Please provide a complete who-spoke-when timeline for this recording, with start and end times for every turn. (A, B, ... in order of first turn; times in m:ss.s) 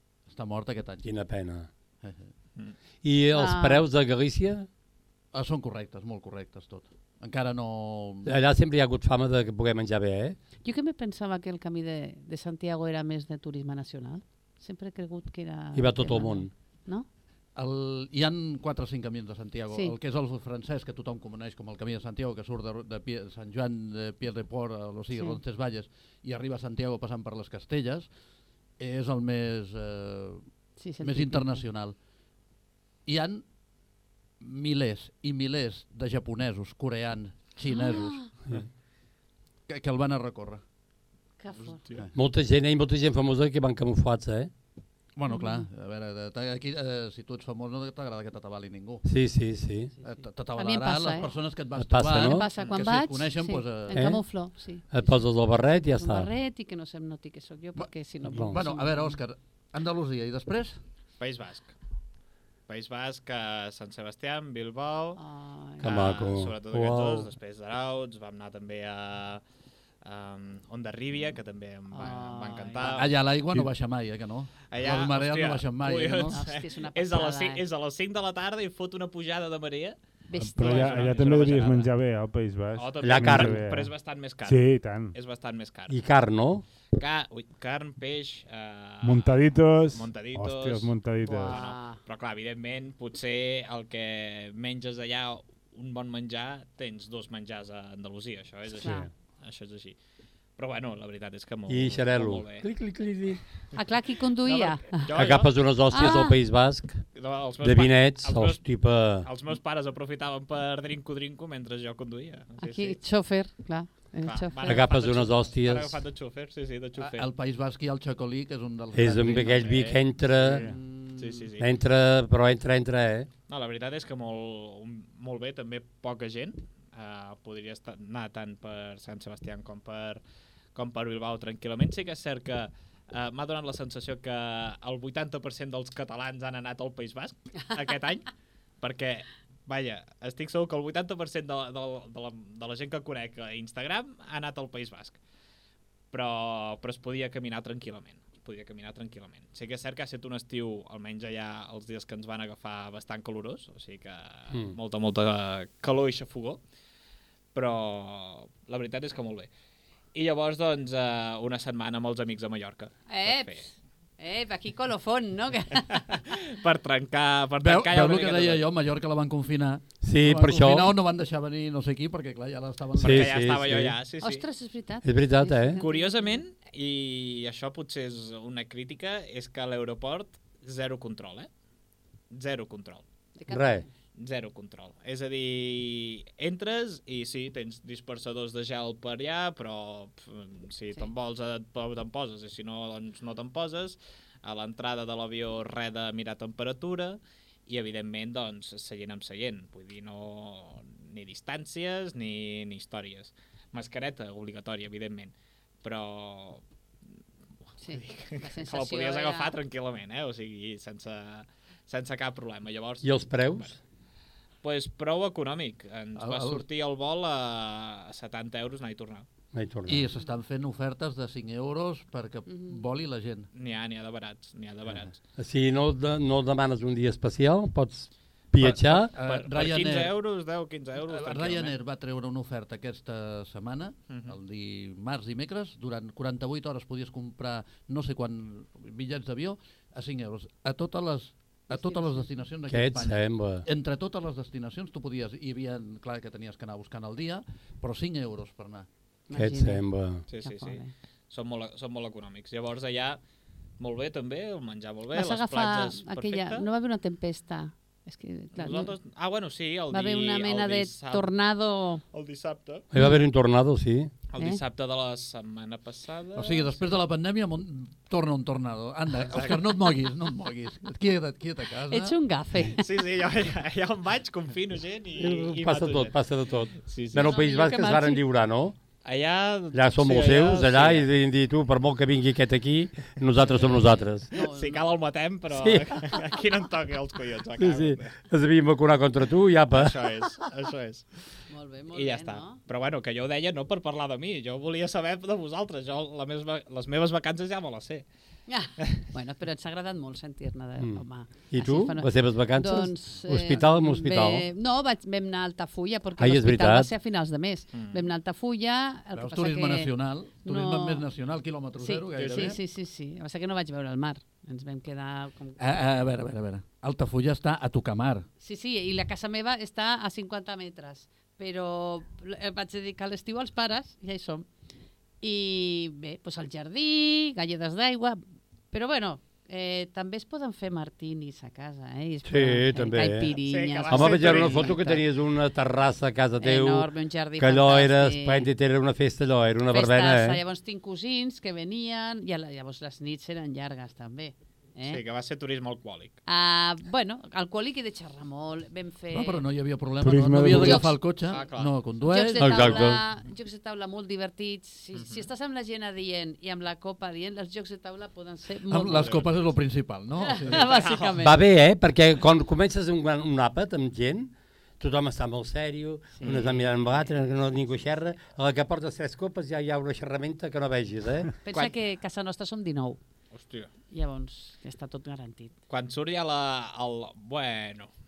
0:00.3-0:01.1 A
0:01.0-0:01.7 B
0:02.0-0:02.3 A
0:03.0-0:04.7 B
0:03.4-0:03.8 C
0:05.3-0:08.3 A
0:08.2-0:10.4 B
0:10.6-0:17.1 C
0:15.7-0:16.5 B
0:17.6-0:28.1 A
0:25.1-0:25.4 C
0:28.8-0:30.4 A
0:30.8-0:31.6 C
0:31.0-0:32.0 A
0:33.1-0:33.4 A
0:34.4-0:38.4 A
0:37.7-0:38.3 C
0:39.7-0:40.6 A
0:41.4-0:41.8 C
0:42.1-0:44.5 B
0:45.2-0:49.0 A
0:45.3-0:45.7 C
0:49.0-0:49.9 B
0:50.0-0:54.0 A
0:50.6-0:51.3 C
0:51.8-0:52.5 B
0:52.2-0:59.2 C
0:53.9-0:54.2 B
0:54.9-0:56.3 B
0:57.8-1:00.8 A
0:58.3-0:58.6 B
1:01.2-1:01.7 D
1:02.7-1:05.2 D
1:05.2-1:05.9 C
1:05.8-1:07.3 B
1:05.8-1:09.4 D
1:10.0-1:13.1 D
1:11.9-1:13.0 C
1:12.8-1:16.4 A
1:14.7-1:20.0 D
1:16.3-1:17.6 C
1:20.3-1:21.1 C
1:20.4-1:23.9 E
1:20.6-1:21.9 D
1:22.8-1:26.0 D
1:23.0-1:23.6 B
1:24.4-1:25.2 E
1:25.9-1:26.6 B
1:27.0-1:40.0 D
1:29.0-1:31.6 E
1:31.2-1:32.0 C
1:38.8-1:39.1 E
1:38.8-1:39.1 C
1:40.6-1:42.7 D
1:41.7-1:43.4 B
1:43.8-1:45.1 C
1:44.4-1:45.5 D
1:45.2-1:47.1 B
1:45.9-1:46.4 C
1:47.2-1:48.6 D
1:47.6-1:49.3 B
1:49.2-1:53.0 D
1:52.6-1:54.8 C
1:54.2-1:57.3 D
1:54.7-1:56.0 B
1:57.0-1:59.8 A
1:58.9-2:00.7 B
1:59.4-2:00.0 D
2:00.7-2:01.2 C
2:01.2-2:01.7 D
2:01.6-2:03.3 B
2:03.5-2:10.2 D
2:10.8-2:18.3 D
2:18.8-2:25.2 D
2:26.1-2:36.6 D
2:37.5-2:39.5 D
2:40.1-2:43.6 D
2:43.1-2:46.1 C
2:45.9-2:48.6 D
2:47.6-2:53.4 A
2:50.0-2:51.0 B
2:53.0-2:54.4 D
2:53.0-2:54.0 B
2:54.2-2:56.4 C
2:55.0-2:55.8 B
2:55.8-3:01.5 D
3:02.3-3:03.0 D
3:03.4-3:03.9 C
3:03.5-3:03.8 B
3:04.2-3:26.6 D
3:27.8-3:29.5 C
3:27.9-3:33.7 D
3:33.0-3:33.8 B
3:34.6-3:39.3 D
3:36.2-3:36.6 A
3:39.5-3:40.1 B
3:39.9-3:43.5 A
3:42.5-3:42.8 C
3:43.5-3:45.2 D
3:45.4-3:49.1 B
3:48.6-3:50.1 A
3:49.2-3:51.8 D
3:51.0-4:08.9 A
3:54.1-3:54.4 D
4:01.7-4:02.3 C
4:02.7-4:03.7 B
4:09.3-4:09.8 C
4:09.3-4:10.2 B
4:10.3-4:13.2 D
4:10.4-4:10.9 C
4:13.8-4:16.7 D
4:15.1-4:18.9 C
4:18.6-4:21.3 D
4:19.9-4:22.0 C
4:22.1-4:22.9 D
4:22.9-4:24.1 B
4:24.3-4:26.9 D
4:26.4-4:32.2 A
4:29.3-4:29.6 D
4:31.9-4:32.8 C
4:32.8-4:36.2 D
4:35.2-4:38.8 B
4:36.8-4:37.4 D
4:37.2-4:38.2 C
4:39.0-4:41.1 D
4:39.7-4:44.3 B
4:44.3-4:44.8 C
4:44.4-4:48.2 D
4:45.5-4:46.0 B
4:47.6-4:50.2 B
4:49.7-4:51.1 D
4:51.5-4:52.6 C
4:51.9-4:58.0 D
4:58.5-5:09.9 C
5:00.8-5:04.4 B
5:06.2-5:06.9 B
5:07.7-5:08.0 D
5:09.2-5:12.6 A
5:10.4-5:11.0 C
5:11.8-5:15.6 C
5:12.2-5:12.5 D
5:15.6-5:18.3 A
5:18.4-5:24.5 C
5:25.2-5:28.2 C
5:28.7-5:35.0 C
5:32.2-5:33.3 B
5:33.5-5:34.8 D
5:33.9-5:40.4 B
5:36.4-5:38.5 C
5:39.7-5:45.0 C
5:44.9-5:46.2 D
5:46.3-5:49.4 C
5:49.1-5:52.7 A
5:50.0-5:51.0 E
5:50.5-5:50.9 C
5:51.3-5:51.7 D
5:52.0-5:59.2 C
5:52.4-5:53.0 B
5:55.0-5:55.3 D
5:58.7-6:00.7 A
5:58.9-5:59.3 D
6:00.3-6:01.4 C
6:00.5-6:01.2 D
6:01.2-6:11.3 B
6:06.2-6:06.6 C
6:06.2-6:06.5 D
6:11.4-6:13.0 C
6:13.3-6:13.7 D
6:13.9-6:15.5 C
6:15.7-6:17.9 D